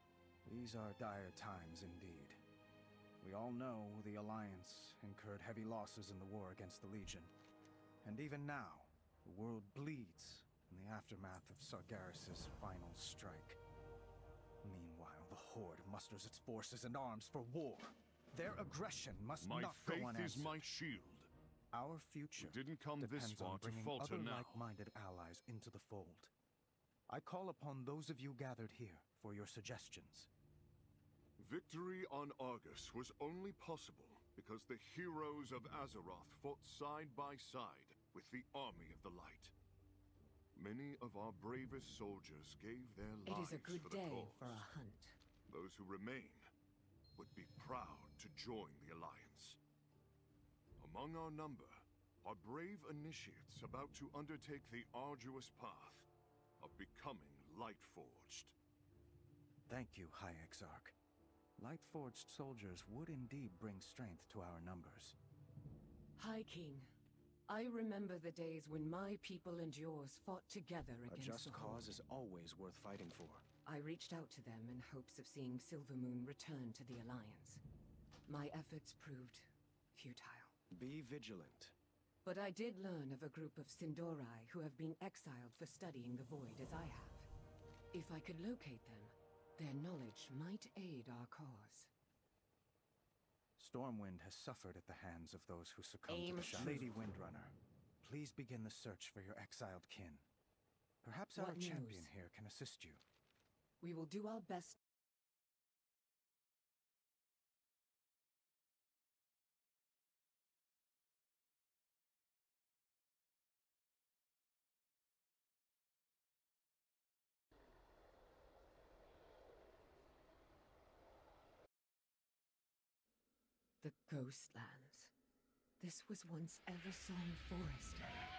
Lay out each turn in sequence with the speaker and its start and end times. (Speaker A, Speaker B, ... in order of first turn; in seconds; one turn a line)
Speaker A: 0.4-2.4
Speaker A: 3.2-7.3
Speaker A: 8.0-13.6
Speaker A: 14.6-20.6
Speaker B: 19.4-21.3
Speaker A: 21.7-26.3
Speaker B: 22.4-24.7
Speaker A: 27.1-30.3
Speaker B: 31.4-39.5
Speaker B: 40.5-44.7
Speaker C: 43.2-45.2
Speaker B: 45.5-46.5
Speaker B: 47.1-49.6
Speaker B: 50.8-56.1
Speaker B: 56.6-58.5
Speaker A: 59.7-60.9
Speaker A: 61.6-65.2
Speaker C: 66.2-66.9
Speaker C: 67.5-71.9
Speaker A: 71.1-73.4
Speaker C: 73.7-77.6
Speaker C: 78.2-80.5
Speaker A: 80.7-81.7
Speaker C: 82.2-87.3
Speaker C: 87.9-91.9
Speaker A: 93.6-100.2
Speaker C: 96.1-96.9
Speaker A: 101.0-103.0
Speaker C: 101.3-102.1
Speaker C: 103.8-104.8
Speaker C: 123.8-125.1
Speaker C: 125.8-128.1